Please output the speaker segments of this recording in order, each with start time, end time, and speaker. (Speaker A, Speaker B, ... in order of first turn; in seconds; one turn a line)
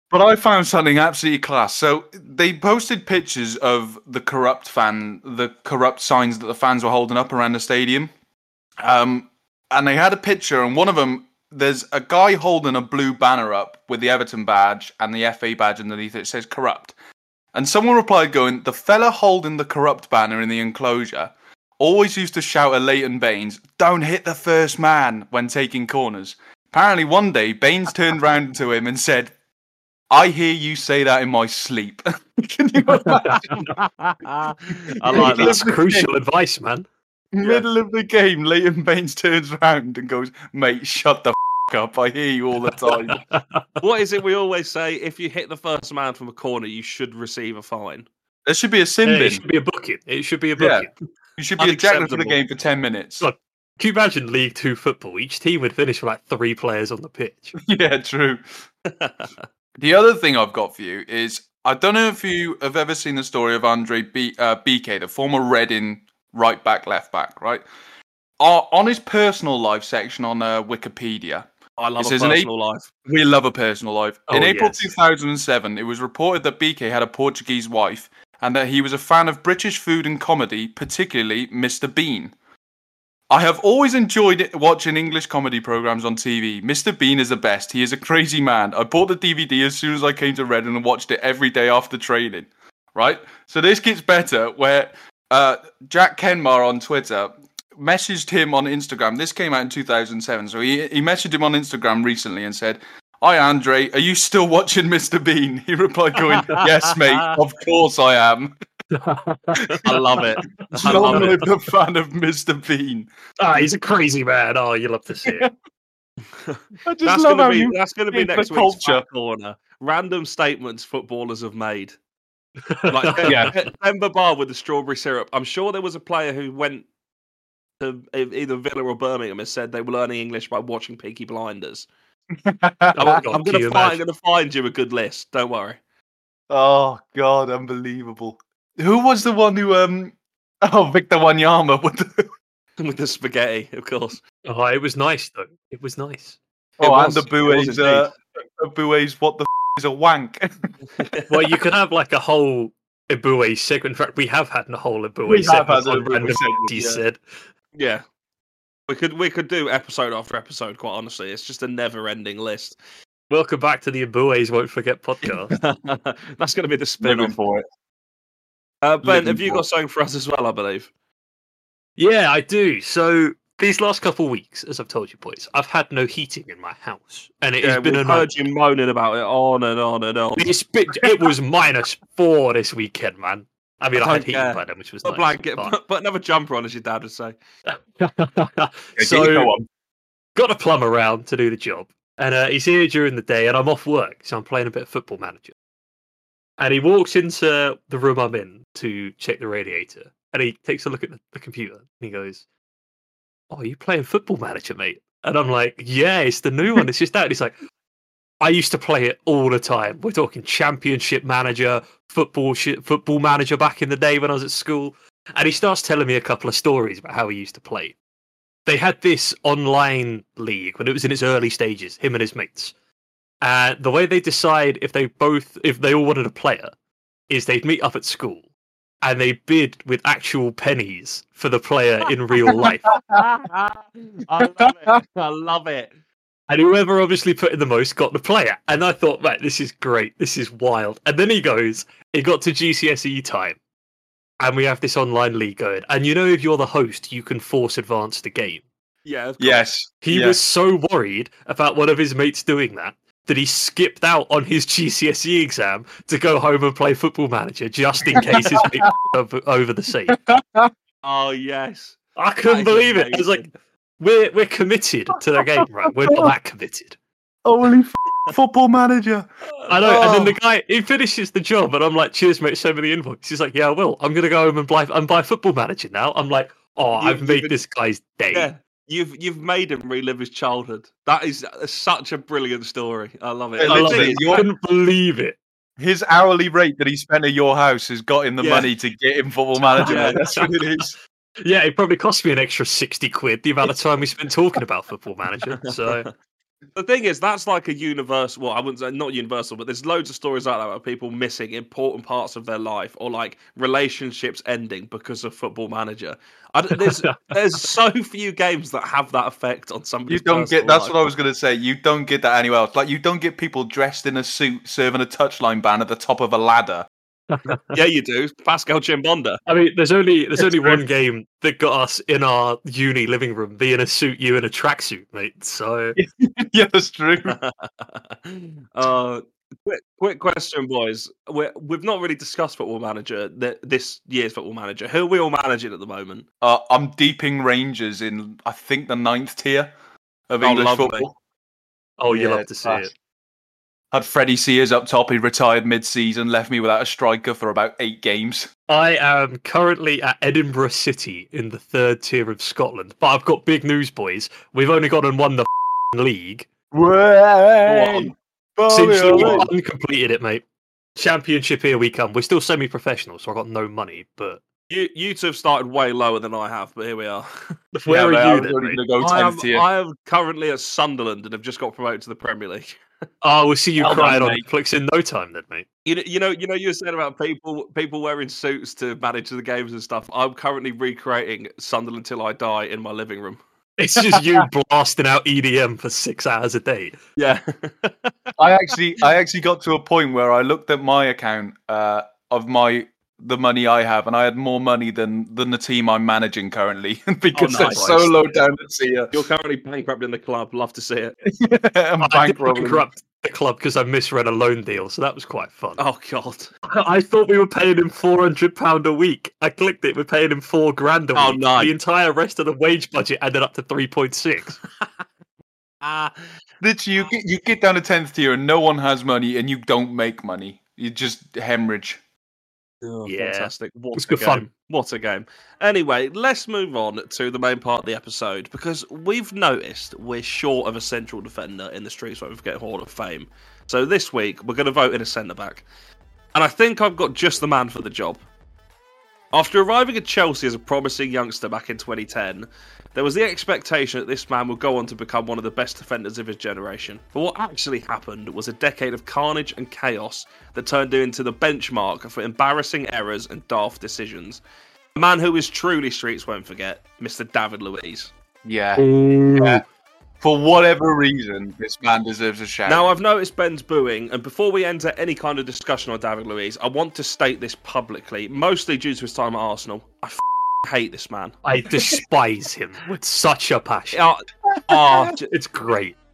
Speaker A: 0.1-8.1
Speaker A: 8.8-16.9
Speaker A: 17.5-29.3
Speaker A: 30.1-33.7
Speaker B: 32.9-33.8
Speaker C: 34.2-35.7
Speaker A: 35.1-36.1
Speaker B: 35.1-36.9
Speaker A: 37.3-43.2
Speaker B: 42.9-43.7
Speaker C: 43.8-48.1
Speaker A: 48.5-49.4
Speaker B: 49.0-50.9
Speaker A: 50.6-53.2
Speaker C: 51.6-52.4
Speaker B: 53.2-57.5
Speaker A: 57.6-58.4
Speaker C: 58.9-59.3
Speaker A: 59.8-67.6
Speaker A: 68.4-72.5
Speaker C: 71.8-72.9
Speaker A: 73.1-82.3
Speaker B: 74.3-74.9
Speaker A: 83.3-108.5
Speaker C: 106.6-107.3
Speaker B: 108.9-109.8
Speaker A: 109.6-110.0
Speaker C: 109.8-111.4
Speaker B: 110.7-111.4
Speaker A: 110.8-113.1
Speaker B: 113.4-115.5
Speaker A: 115.2-115.5
Speaker C: 116.5-122.0
Speaker A: 116.8-119.0
Speaker B: 122.7-123.5
Speaker C: 122.9-126.8
Speaker A: 123.2-123.5
Speaker C: 127.8-131.9
Speaker A: 132.4-133.2
Speaker B: 132.9-134.0
Speaker C: 133.0-135.8
Speaker A: 136.5-142.2
Speaker C: 142.8-144.2
Speaker B: 144.4-146.4
Speaker C: 146.8-148.1
Speaker A: 146.8-150.7
Speaker C: 151.0-151.3
Speaker B: 151.3-157.2
Speaker A: 155.3-156.8
Speaker C: 156.7-157.0
Speaker C: 157.7-158.0
Speaker C: 158.9-162.8
Speaker B: 163.3-165.5
Speaker C: 165.2-167.3
Speaker A: 167.0-167.6
Speaker C: 168.8-170.9
Speaker A: 169.0-169.7
Speaker B: 172.0-178.3
Speaker C: 177.6-180.5
Speaker B: 180.4-185.7
Speaker C: 184.0-187.3
Speaker B: 187.7-189.5
Speaker A: 189.0-189.7
Speaker B: 190.3-195.5
Speaker B: 196.6-202.4
Speaker B: 203.5-207.6
Speaker B: 208.4-217.9
Speaker B: 218.7-222.7
Speaker B: 223.4-226.7
Speaker B: 227.3-228.4
Speaker B: 229.0-232.9
Speaker A: 232.8-233.2
Speaker C: 232.8-235.9
Speaker A: 234.6-234.9
Speaker B: 236.5-243.6
Speaker B: 244.4-248.7
Speaker C: 249.1-249.7
Speaker A: 249.4-250.4
Speaker B: 250.0-260.2
Speaker A: 258.2-258.9
Speaker A: 260.1-260.7
Speaker C: 261.0-263.5
Speaker B: 262.2-263.5
Speaker B: 264.0-266.9
Speaker A: 267.4-269.2
Speaker B: 269.7-278.5
Speaker A: 269.8-270.3
Speaker C: 277.0-277.6
Speaker C: 278.3-284.5
Speaker A: 283.6-284.4
Speaker B: 283.6-285.4
Speaker A: 285.8-290.9
Speaker C: 288.4-288.7
Speaker B: 289.8-290.5
Speaker C: 289.8-290.2
Speaker B: 291.4-296.1
Speaker C: 295.5-296.1
Speaker C: 296.7-310.9
Speaker B: 306.8-307.3
Speaker A: 310.1-316.9
Speaker B: 317.3-317.7
Speaker C: 317.7-319.4
Speaker B: 319.4-326.0
Speaker A: 320.4-320.8
Speaker A: 325.9-327.4
Speaker C: 327.3-336.2
Speaker A: 336.4-339.7
Speaker A: 340.3-341.1
Speaker C: 340.4-341.1
Speaker B: 342.0-342.9
Speaker A: 342.1-342.9
Speaker A: 343.9-348.5
Speaker B: 348.7-356.5
Speaker A: 356.7-359.5
Speaker C: 357.6-358.1
Speaker B: 358.7-360.4
Speaker C: 359.1-359.5
Speaker B: 360.9-364.4
Speaker C: 364.7-367.5
Speaker B: 367.7-368.8
Speaker A: 367.9-369.7
Speaker C: 369.0-372.8
Speaker B: 373.2-375.6
Speaker A: 373.8-374.4
Speaker C: 375.9-383.4
Speaker B: 383.8-387.0
Speaker A: 384.0-384.4
Speaker C: 387.2-388.3
Speaker A: 388.4-399.2
Speaker C: 397.3-398.2
Speaker C: 399.1-401.2
Speaker A: 401.3-402.9
Speaker B: 402.0-405.8
Speaker C: 405.8-406.5
Speaker B: 406.7-414.6
Speaker C: 411.1-411.7
Speaker C: 415.8-416.2
Speaker A: 416.6-422.0
Speaker C: 422.8-435.6
Speaker B: 423.1-424.5
Speaker C: 436.3-438.2
Speaker C: 439.3-454.4
Speaker C: 454.9-458.1
Speaker A: 458.4-459.6
Speaker B: 458.8-459.6
Speaker A: 460.2-462.9
Speaker C: 462.7-471.4
Speaker B: 471.4-474.0
Speaker C: 473.9-475.3
Speaker A: 474.7-475.1
Speaker B: 475.2-475.9